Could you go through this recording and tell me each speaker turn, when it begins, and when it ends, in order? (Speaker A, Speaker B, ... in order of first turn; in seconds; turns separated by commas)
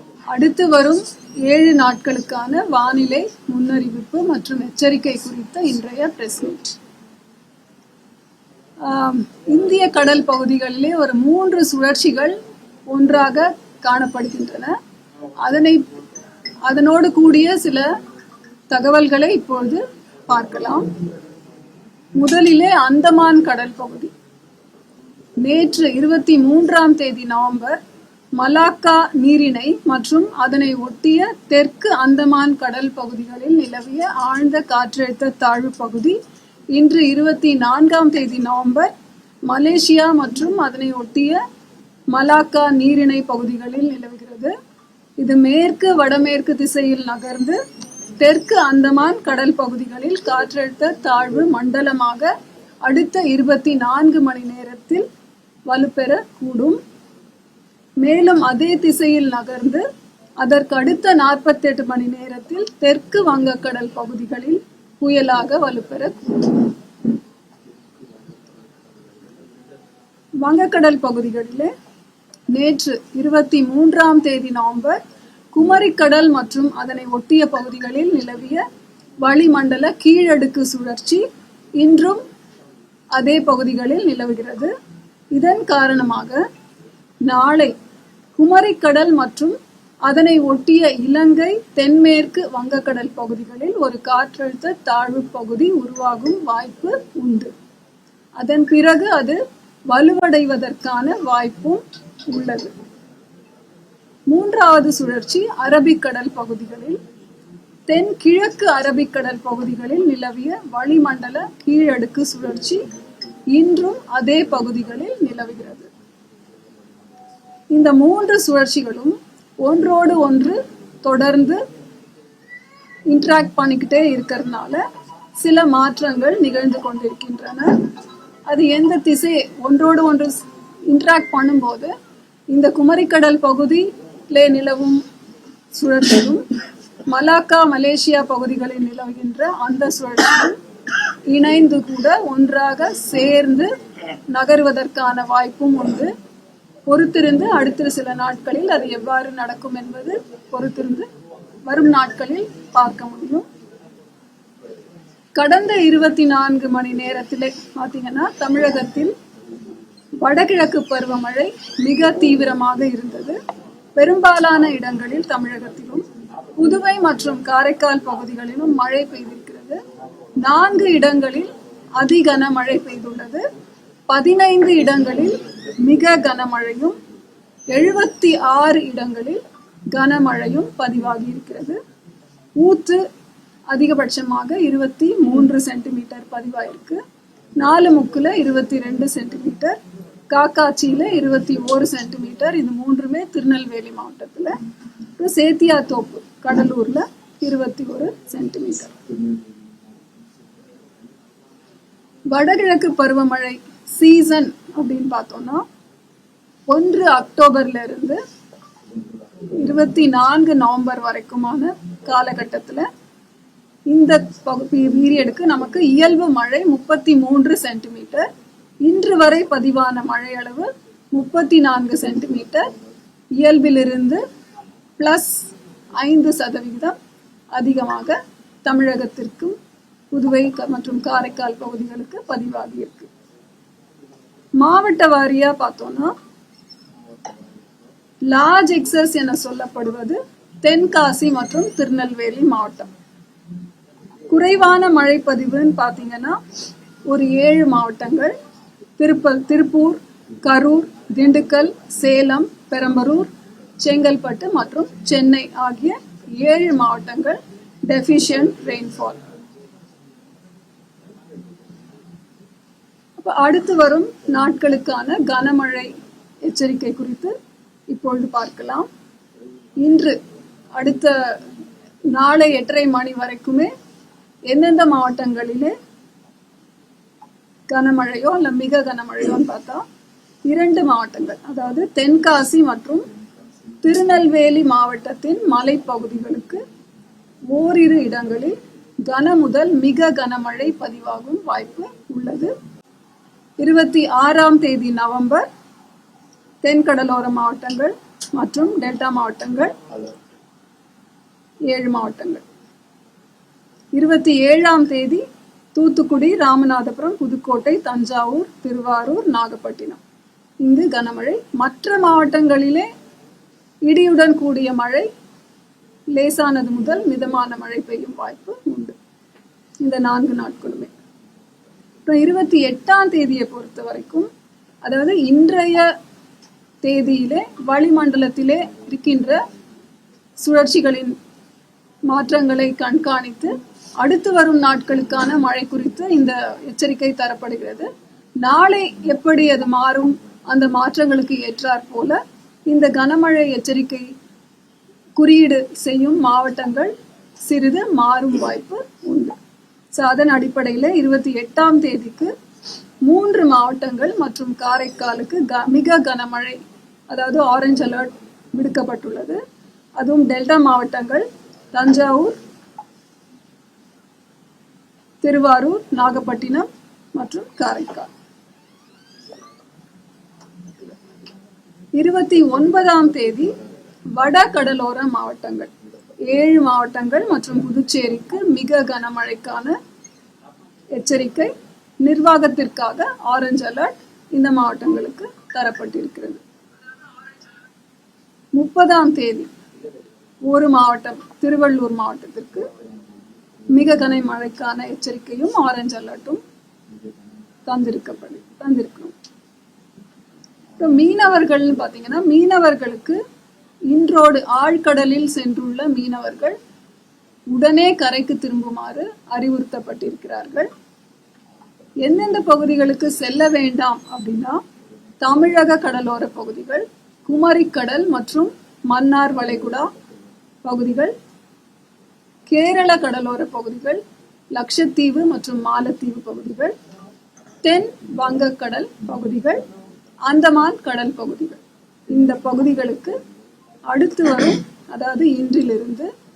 Speaker A: 0.3-6.8, Speaker A: 8.8-12.4, Speaker A: 12.9-14.7, Speaker A: 15.4-15.9, Speaker A: 16.6-17.9, Speaker A: 18.7-21.0, Speaker A: 22.2-24.1, Speaker A: 25.4-27.8, Speaker A: 28.4-36.2, Speaker A: 36.7-38.9, Speaker A: 39.5-41.4, Speaker A: 42.1-44.5, Speaker A: 45.2-47.6, Speaker A: 48.2-52.3, Speaker A: 52.8-55.1, Speaker A: 55.7-56.8, Speaker A: 58.0-59.8, Speaker A: 60.4-66.8, Speaker A: 70.4-71.7, Speaker A: 72.5-75.0, Speaker A: 75.5-78.6, Speaker A: 79.2-81.2, Speaker A: 81.8-82.2, Speaker A: 83.2-84.7, Speaker A: 85.3-86.4, Speaker A: 87.2-87.7, Speaker A: 88.4-97.5, Speaker A: 98.4-102.8, Speaker A: 104.3-107.0, Speaker A: 107.9-112.8, Speaker A: 113.5-115.9, Speaker A: 117.7-121.6, Speaker A: 123.1-124.8, Speaker A: 125.4-127.9, Speaker A: 128.5-131.9, Speaker A: 132.5-135.0, Speaker A: 135.7-136.4, Speaker A: 137.1-140.6, Speaker A: 141.3-143.7, Speaker A: 144.3-146.1, Speaker A: 146.9-151.1, Speaker A: 151.7-153.5, Speaker A: 155.4-159.1, Speaker A: 160.2-163.4, Speaker A: 164.0-166.1, Speaker A: 166.6-169.8, Speaker A: 170.4-173.4, Speaker A: 174.1-177.0, Speaker A: 177.7-179.4, Speaker A: 179.9-181.8, Speaker A: 182.6-183.0, Speaker A: 183.7-187.0, Speaker A: 187.6-189.8, Speaker A: 190.3-194.6, Speaker A: 195.2-199.0, Speaker A: 202.3-205.6, Speaker A: 206.7-208.2, Speaker A: 209.5-212.9, Speaker A: 213.9-218.3, Speaker A: 218.8-222.7, Speaker A: 223.4-224.2, Speaker A: 225.0-227.0, Speaker A: 227.6-229.6, Speaker A: 230.1-233.1, Speaker A: 234.6-236.1, Speaker A: 238.3-242.9, Speaker A: 244.3-246.4, Speaker A: 247.1-248.3, Speaker A: 249.0-253.3, Speaker A: 253.8-259.2, Speaker A: 263.2-265.9, Speaker A: 266.4-267.3, Speaker A: 267.9-268.9, Speaker A: 269.8-270.2, Speaker A: 270.8-271.5, Speaker A: 272.1-273.7, Speaker A: 274.5-275.7, Speaker A: 277.7-279.8, Speaker A: 280.5-283.1, Speaker A: 283.8-286.6, Speaker A: 287.5-292.5, Speaker A: 293.6-295.5, Speaker A: 296.6-299.8, Speaker A: 301.7-302.4, Speaker A: 304.0-305.2, Speaker A: 305.8-310.0, Speaker A: 310.6-312.9, Speaker A: 313.9-315.1, Speaker A: 316.1-319.0, Speaker A: 319.8-320.9, Speaker A: 322.1-324.3, Speaker A: 324.8-325.9, Speaker A: 326.8-329.4, Speaker A: 330.4-331.2, Speaker A: 332.1-337.9, Speaker A: 338.4-344.1, Speaker A: 345.2-349.4, Speaker A: 349.9-352.3, Speaker A: 353.1-359.4, Speaker A: 360.0-362.4, Speaker A: 365.2-368.1, Speaker A: 372.0-373.5, Speaker A: 374.1-375.7, Speaker A: 376.2-379.8, Speaker A: 380.9-381.5, Speaker A: 382.0-386.4, Speaker A: 388.6-389.5, Speaker A: 390.5-392.7, Speaker A: 393.7-396.4, Speaker A: 397.7-399.1, Speaker A: 400.8-403.2, Speaker A: 403.9-406.6, Speaker A: 407.5-410.7, Speaker A: 412.0-414.6, Speaker A: 415.2-419.9, Speaker A: 420.6-421.1, Speaker A: 422.5-424.0, Speaker A: 424.5-426.8, Speaker A: 427.6-429.6, Speaker A: 430.3-433.2, Speaker A: 433.9-436.1